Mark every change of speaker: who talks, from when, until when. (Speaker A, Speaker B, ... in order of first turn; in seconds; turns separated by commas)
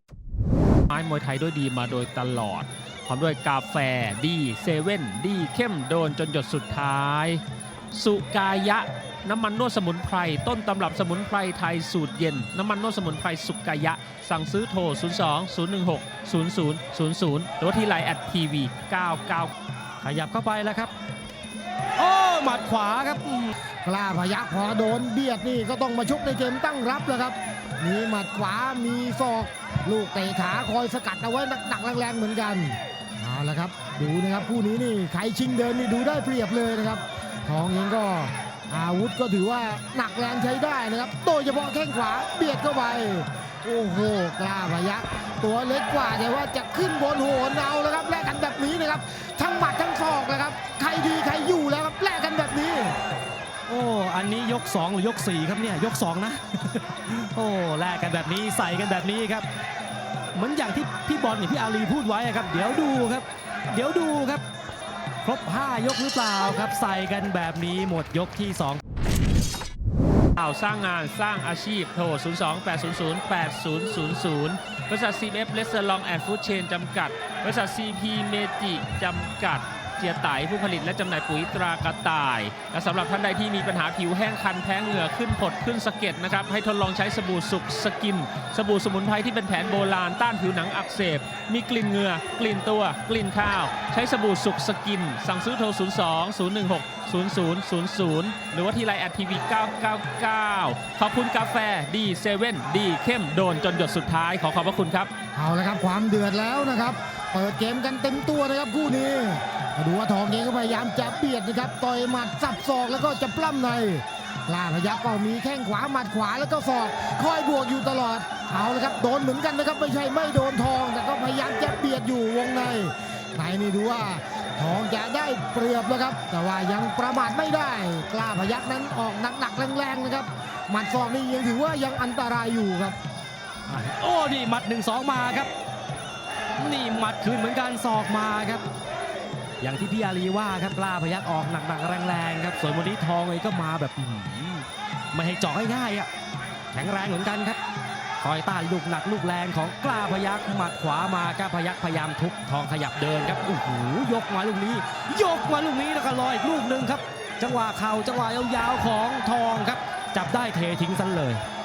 Speaker A: 0.9-19.5, Speaker B: 20.0-20.9, Speaker B: 22.0-23.5, Speaker C: 23.8-53.0, Speaker B: 53.7-59.5, Speaker B: 60.4-64.4, Speaker B: 65.2-68.8, Speaker A: 70.4-105.1, Speaker C: 105.3-133.0, Speaker B: 133.7-135.5, Speaker B: 136.6-138.6, Speaker B: 139.6-146.1, Speaker B: 146.7-147.6, Speaker B: 148.2-161.4